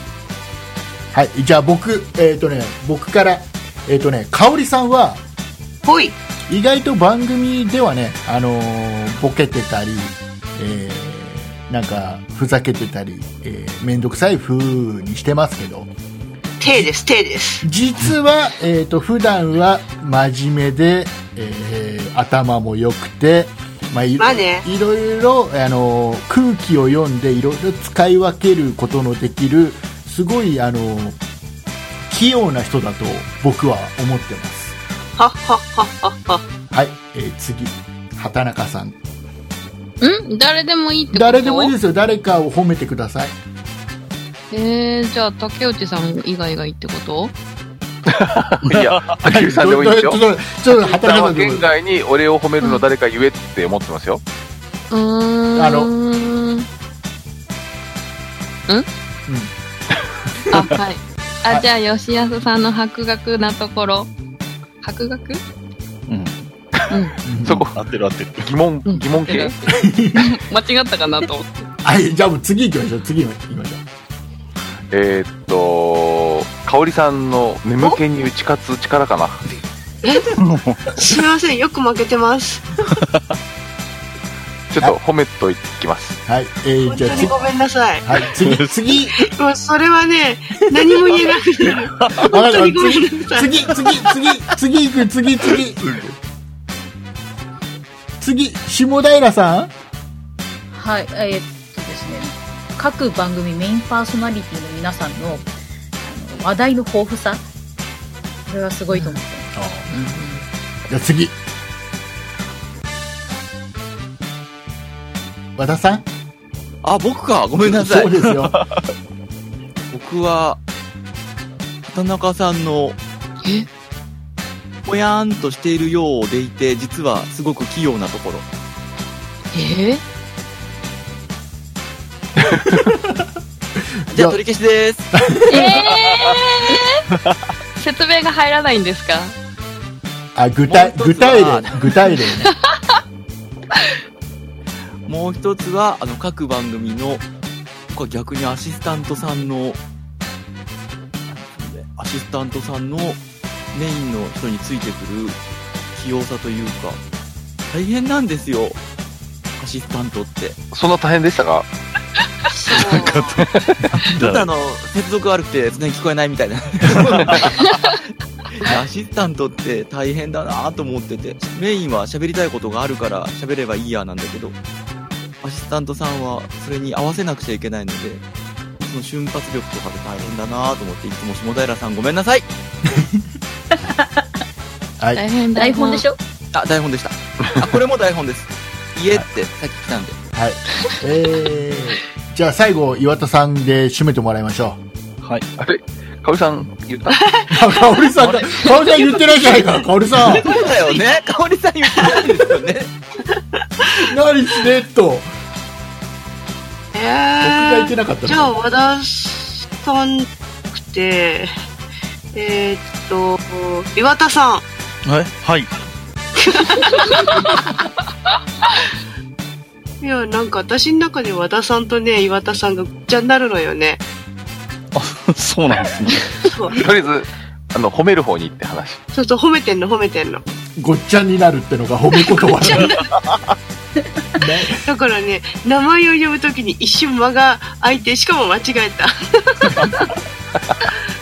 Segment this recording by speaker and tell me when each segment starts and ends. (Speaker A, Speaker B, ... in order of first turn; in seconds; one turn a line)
Speaker A: 1.1-5.2
Speaker B: 5.8-6.2
Speaker A: 6.5-15.9
Speaker B: 16.6-17.6
Speaker A: 17.6-31.2
Speaker B: 24.2-24.6
Speaker A: 32.1-34.8
Speaker B: 35.2-36.4
Speaker A: 36.7-39.0
Speaker C: 40.0-41.7
Speaker A: 41.1-43.3
Speaker C: 44.5-47.3
Speaker D: 48.0-54.2
Speaker E: 48.7-49.1
Speaker A: 49.2-51.6
Speaker C: 54.9-56.7
Speaker A: 55.5-55.9
Speaker C: 60.5-64.1
Speaker C: 64.8-65.4
Speaker E: 66.1-66.4
Speaker A: 67.2-67.7
Speaker D: 67.4-67.8
Speaker E: 67.7-68.5
Speaker D: 68.4-69.5
Speaker C: 68.8-71.7
Speaker A: 69.7-70.3
Speaker A: 71.8-73.8
Speaker D: 74.9-79.4
Speaker B: 80.0-80.3
Speaker E: 80.4-81.0
Speaker B: 80.9-82.7
Speaker D: 84.7-86.2
Speaker A: 86.2-87.5
Speaker B: 86.9-88.0
Speaker A: 88.0-89.3
Speaker E: 88.4-88.7
Speaker B: 89.2-93.9
Speaker E: 91.9-92.3
Speaker A: 92.2-95.8
Speaker E: 95.8-96.1
Speaker A: 98.2-99.7
Speaker F: 100.7-107.4
Speaker F: 108.5-109.5
Speaker C: 108.9-109.2
Speaker A: 109.5-109.9
Speaker C: 109.9-110.5
Speaker A: 110.9-111.3
Speaker A: 115.6-116.0
Speaker G: 116.8-118.1
Speaker A: 117.6-118.5
Speaker E: 118.5-118.8
Speaker G: 119.9-120.6
Speaker G: 121.8-123.0
Speaker G: 124.8-128.4
Speaker C: 129.5-130.0
Speaker A: 132.4-133.2
Speaker A: 134.1-134.4
Speaker G: 134.1-135.1
Speaker A: 135.1-135.7
Speaker C: 135.5-137.0
Speaker C: 137.8-139.3
Speaker A: 140.3-142.5
Speaker G: 140.6-141.9
Speaker C: 142.5-142.8
Speaker G: 145.1-147.2
Speaker G: 147.9-149.8
Speaker G: 151.3-153.2
Speaker G: 153.7-155.4
Speaker G: 155.9-157.0
Speaker G: 157.7-158.8
Speaker G: 159.6-160.6
Speaker D: 160.7-161.7
Speaker B: 162.5-163.4
Speaker E: 162.7-164.5
Speaker D: 163.5-163.8
Speaker G: 164.0-167.7
Speaker G: 168.5-174.6
Speaker G: 175.4-178.2
Speaker G: 178.8-182.5
Speaker A: 182.9-183.2
Speaker C: 185.1-186.0
Speaker F: 185.5-186.2
Speaker G: 186.5-190.2
Speaker A: 190.3-194.8
Speaker D: 195.6-197.4
Speaker A: 197.5-200.6
Speaker E: 198.2-198.7
Speaker G: 200.2-202.9
Speaker A: 203.9-205.3
Speaker B: 206.9-211.5
Speaker A: 207.4-208.6
Speaker B: 212.3-214.6
Speaker E: 215.1-215.7
Speaker B: 216.4-217.2
Speaker B: 220.0-224.0
Speaker E: 224.9-226.5
Speaker B: 226.4-226.8
Speaker D: 226.7-229.0
Speaker B: 229.1-230.4
Speaker A: 230.8-232.9
Speaker B: 232.5-233.1
Speaker E: 232.8-233.2
Speaker A: 234.4-234.8
Speaker B: 234.8-240.1